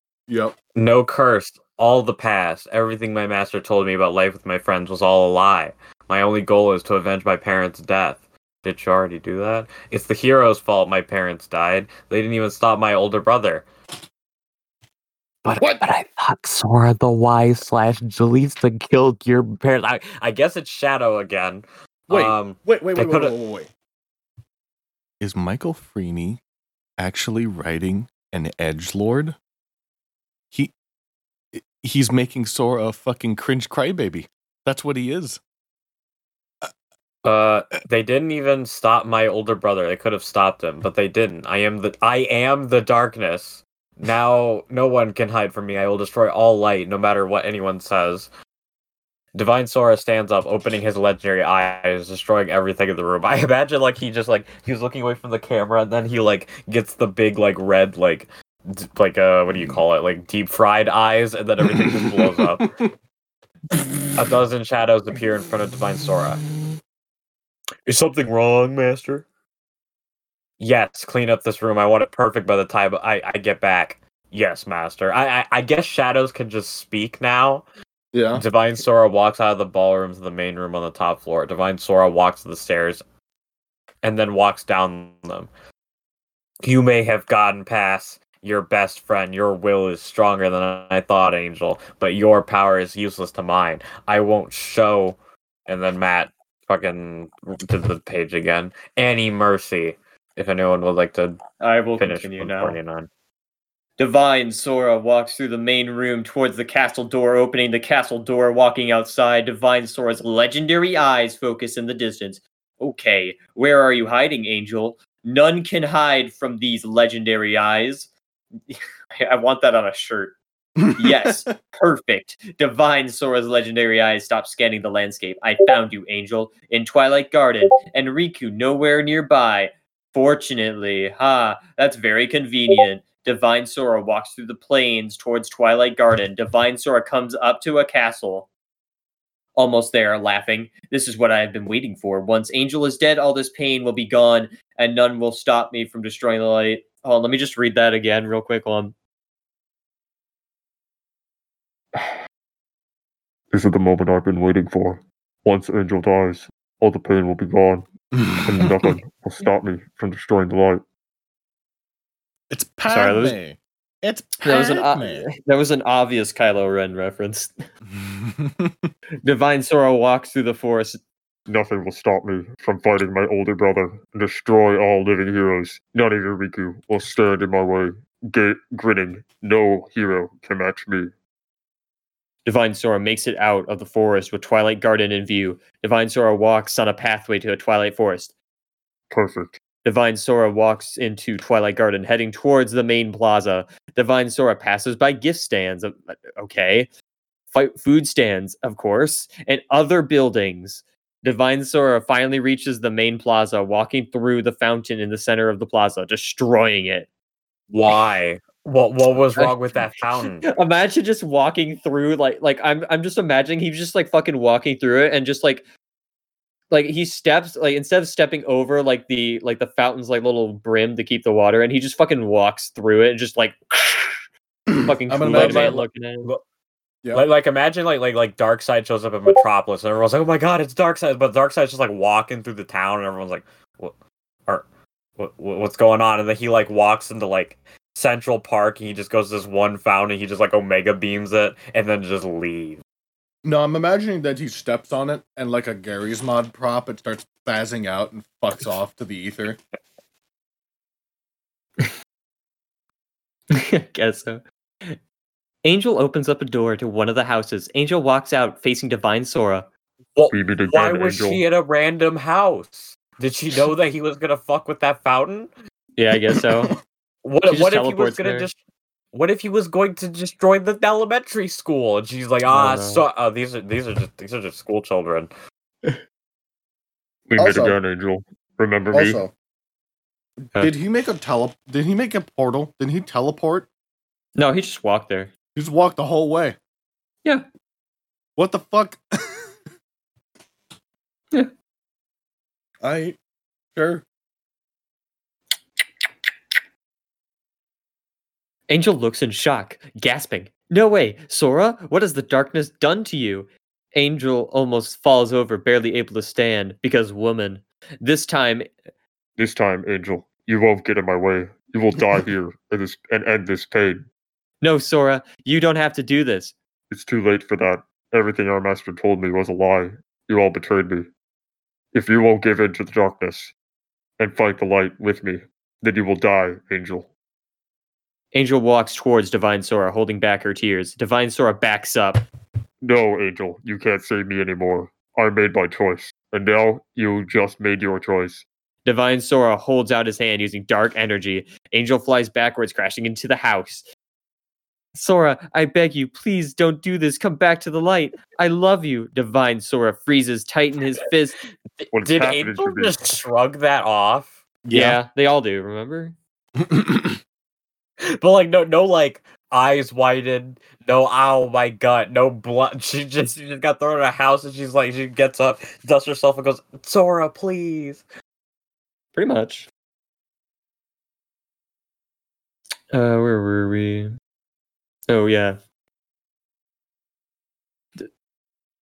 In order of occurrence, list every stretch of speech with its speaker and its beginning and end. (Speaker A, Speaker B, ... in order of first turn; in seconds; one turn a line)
Speaker A: 0.3-0.5
Speaker B: 0.8-13.6
Speaker B: 15.4-23.3
Speaker A: 15.6-15.8
Speaker A: 22.1-23.7
Speaker A: 25.2-26.4
Speaker A: 27.0-29.4
Speaker A: 31.5-35.4
Speaker B: 37.2-48.3
Speaker B: 49.3-62.7
Speaker A: 61.7-62.9
Speaker B: 64.2-66.4
Speaker B: 67.8-69.2
Speaker B: 70.6-77.7
Speaker A: 78.1-78.4
Speaker B: 78.3-83.0
Speaker B: 84.0-85.5
Speaker B: 86.6-101.4
Speaker C: 101.6-102.8
Speaker B: 102.0-103.1
Speaker C: 104.0-118.1
Speaker C: 118.7-120.4
Speaker A: 120.8-121.3
Speaker C: 120.9-138.5
Speaker C: 139.6-148.9
Speaker D: 153.5-157.9
Speaker A: 158.1-158.9
Speaker D: 158.4-160.8
Speaker A: 162.5-165.3
Speaker C: 162.9-163.4
Speaker C: 164.4-167.7
Speaker A: 167.9-168.9
Speaker C: 169.2-171.0
Speaker D: 171.5-181.1
Speaker C: 182.4-188.3
Speaker D: 189.1-189.6
Speaker C: 189.8-196.9
Speaker C: 197.5-207.1
Speaker B: 207.7-210.4
Speaker C: 210.2-215.7
Speaker C: 216.7-224.2
Speaker A: 224.7-225.8
Speaker C: 224.8-226.3
Speaker B: 225.3-226.4
Speaker B: 227.1-233.9
Speaker B: 235.2-242.8
Speaker A: 243.4-249.6
Speaker C: 253.5-255.0
Speaker C: 255.6-259.7
Speaker B: 260.1-265.5
Speaker D: 260.3-261.4
Speaker C: 265.9-266.7
Speaker A: 266.3-266.7
Speaker B: 267.2-268.6
Speaker C: 267.5-268.5
Speaker B: 269.1-275.3
Speaker C: 272.5-273.0
Speaker D: 277.3-279.2
Speaker A: 277.4-277.8
Speaker A: 278.9-279.3
Speaker A: 280.5-283.7
Speaker C: 284.4-285.3
Speaker A: 285.5-286.6
Speaker A: 288.4-289.4
Speaker A: 292.8-293.2
Speaker A: 293.8-294.0
Speaker C: 298.7-308.6
Speaker D: 309.4-314.0
Speaker C: 314.6-316.5
Speaker D: 316.9-321.1
Speaker D: 321.9-323.5
Speaker D: 324.2-327.1
Speaker C: 328.3-332.2
Speaker D: 332.8-338.4
Speaker C: 338.8-343.9
Speaker C: 344.9-351.4
Speaker B: 351.8-354.3
Speaker D: 351.9-352.9
Speaker A: 354.6-355.0
Speaker C: 354.7-356.1
Speaker A: 356.6-357.2
Speaker B: 358.1-368.0
Speaker C: 369.1-369.7
Speaker C: 372.9-374.1
Speaker C: 375.1-375.6